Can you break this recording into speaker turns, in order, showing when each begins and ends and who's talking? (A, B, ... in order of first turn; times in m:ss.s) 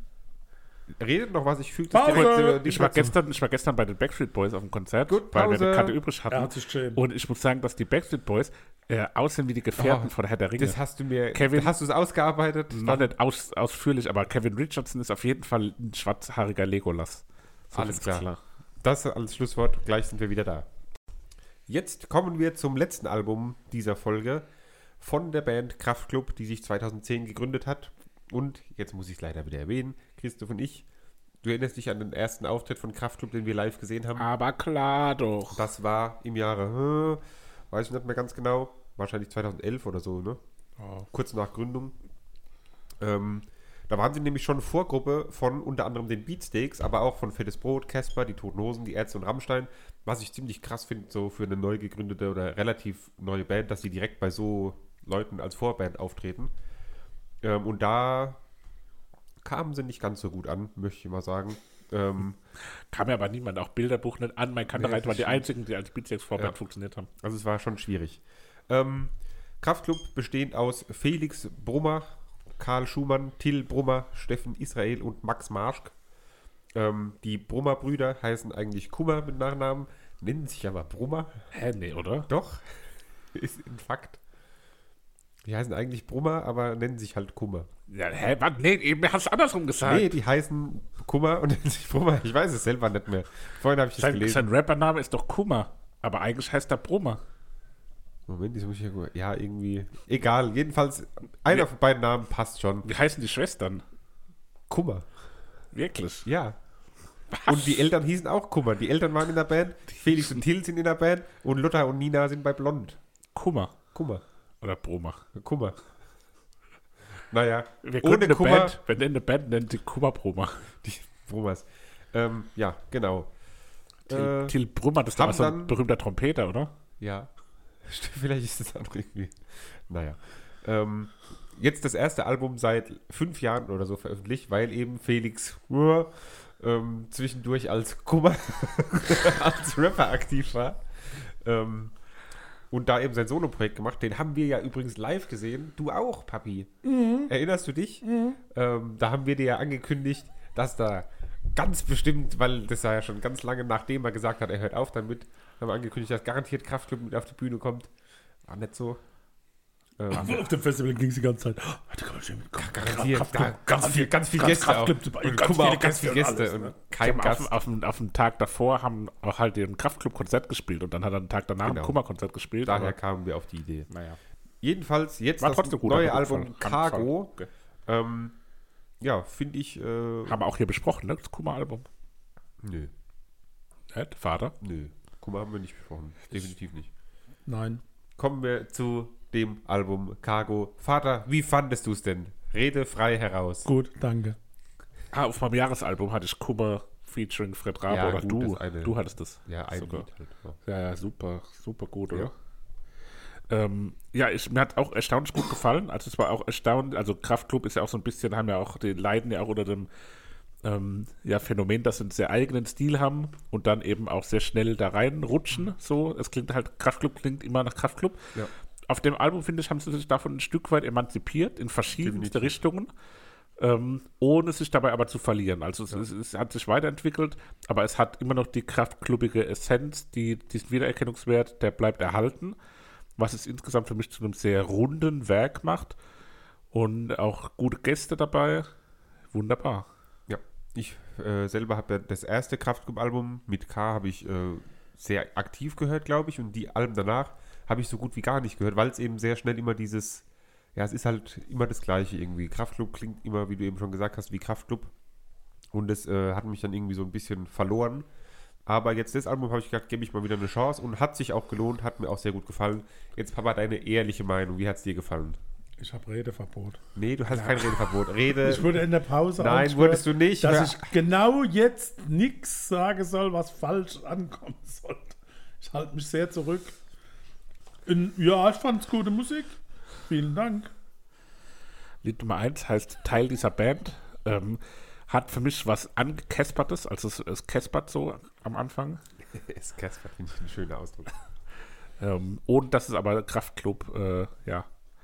0:00.9-0:03.1 A
0:01.9-0:02.7 B
0:02.1-0:10.8 C
0:05.1-0:06.0 A
0:06.3-0:07.0 B
0:09.8-0:13.1 A
0:11.3-0:11.7 C
0:12.7-0:18.4 C
0:17.7-0:18.3 A
0:18.8-0:20.7 A
0:21.7-0:24.5 A
0:25.0-0:30.8 A
0:31.4-0:34.3 A
0:34.2-0:35.6 C
0:35.5-0:40.4 A
0:41.1-0:41.9 A
0:43.0-0:56.5 A
0:57.4-0:58.4 A
0:59.4-1:02.4 A
1:02.9-1:07.1 C
1:04.7-1:05.4 A
1:07.2-1:15.9 A
1:16.7-1:21.3 A
1:21.5-1:22.3 C
1:22.3-1:22.6 A
1:23.3-1:24.2 A
1:25.4-1:27.7 A
1:27.9-1:30.1 C
1:29.8-1:34.5 A
1:34.0-1:37.2 C
1:38.3-1:42.9 A
1:42.8-1:43.8 C
1:44.7-1:45.1 A
1:45.7-1:46.3 C
1:46.2-1:46.6 A
1:47.3-1:47.9 C
1:47.4-1:53.0 A
1:53.3-1:53.7 C
1:53.9-1:54.2 A
1:54.6-1:55.2 C
1:55.3-1:55.8 A
1:57.3-1:58.8 A
1:57.8-2:00.7 C
2:00.8-2:03.3 A
2:04.1-2:04.6 A
2:04.1-2:06.7 C
2:05.1-2:05.8 A
2:07.0-2:07.3 A
2:07.8-2:21.9 A
2:22.7-2:26.7 A
2:26.8-2:27.3 B
2:27.2-2:37.9 A
2:28.0-2:28.4 B
2:38.4-2:39.0 A
2:40.0-2:40.4 A
2:40.1-2:46.7 B
2:42.6-2:47.5 A
2:47.0-2:52.9 C
2:51.6-2:52.0 A
2:52.6-2:53.9 A
2:53.9-2:54.2 C
2:54.6-2:57.3 A
2:55.4-2:57.5 C
2:57.9-2:58.3 A
2:59.0-3:00.4 A
3:00.3-3:01.9 C
3:02.6-3:02.9 A
3:03.9-3:04.5 C
3:04.6-3:06.9 A
3:07.5-3:07.8 B
3:08.2-3:13.7 A
3:13.6-3:14.4 B
3:15.1-3:20.0 C
3:17.9-3:20.6 A
3:20.6-3:22.3 C
3:23.5-3:29.9 C
3:30.6-3:38.3 C
3:38.9-3:42.9 C
3:42.0-3:42.6 A
3:43.6-3:52.6 C
3:53.2-3:56.0 C
3:56.7-3:58.7 C
3:59.3-3:59.9 C
4:00.3-4:14.9 A
4:15.7-4:18.1 A
4:18.6-4:25.4 A
4:25.8-4:26.8 B
4:27.0-4:28.8 A
4:27.3-4:27.8 C
4:28.4-4:36.8 B
4:29.4-4:30.9 A
4:37.8-4:39.6 B
4:40.1-4:40.7 B
4:42.0-4:49.0 C
4:49.3-4:51.1 A
4:52.0-4:54.7 C